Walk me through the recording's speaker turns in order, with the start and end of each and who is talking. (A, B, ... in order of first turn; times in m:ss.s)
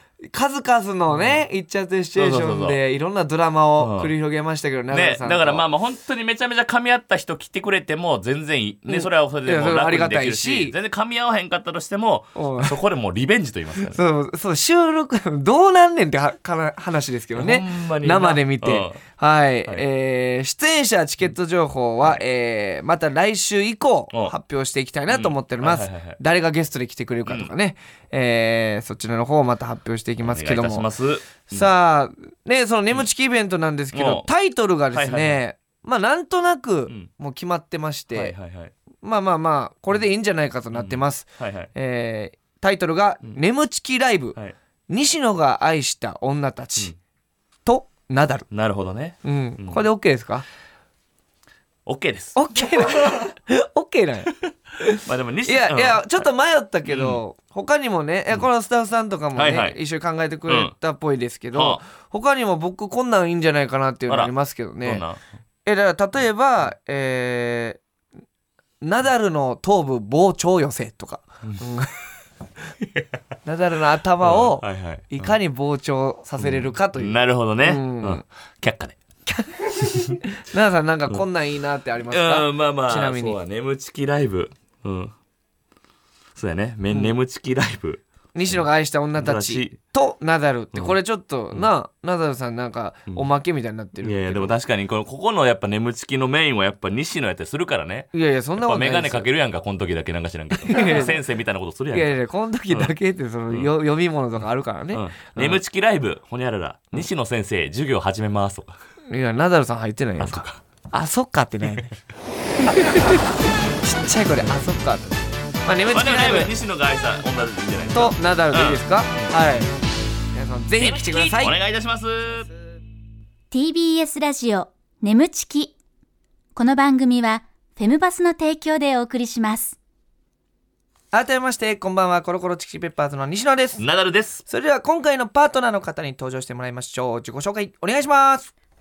0:00.2-0:05.6 A
0:01.1-0:01.4 B
0:02.1-0:02.8 B
0:03.8-0:04.1 B
0:04.9-0:14.0 B
0:08.9-0:10.7 A
0:12.4-0:12.8 A
0:13.8-0:30.9 A
0:17.3-0:19.0 B
0:25.1-0:26.2 B
0:30.2-0:31.7 B
0:31.4-0:38.3 A
0:33.9-0:34.3 B
0:34.9-0:35.4 B
0:38.1-0:38.7 B
0:39.0-0:46.9 A
0:40.7-0:41.7 B
0:47.6-0:48.5 A
0:48.5-0:49.9 B
0:49.2-0:50.4 A
0:51.8-0:53.2 B
0:52.4-1:05.0 A
0:55.0-0:56.3 B
0:56.9-0:57.2 B
0:59.3-0:59.8 B
1:00.5-1:00.7 B
1:01.5-1:01.8 B
1:04.1-1:04.3 B
1:04.8-1:05.2 B
1:05.6-1:07.8 A
1:08.8-1:11.9 A
1:12.8-1:13.1 B
1:13.4-1:18.2 A
1:14.2-1:15.3 B
1:16.4-1:19.0 B
1:19.3-1:23.4 A
1:19.8-1:20.2 B
1:22.1-1:25.1 B
1:26.3-1:28.6 B
1:26.9-1:27.2 A
1:28.3-1:34.5 A
1:29.2-1:29.8 B
1:34.0-1:42.1 B
1:38.1-1:39.3 A
1:40.6-1:41.2 A
1:41.9-1:45.6 A
1:44.9-1:48.7 B
1:49.1-1:51.9 A
1:50.2-1:50.6 B
1:52.6-1:53.2 A
1:53.8-1:56.5 A
1:55.9-1:59.3 B
1:57.9-1:59.7 A
2:00.3-2:01.6 A
2:00.8-2:02.5 B
2:03.5-2:05.7 C
2:06.5-2:09.8 C
2:11.1-2:13.8 A
2:13.8-2:14.4 B
2:14.5-2:18.5 A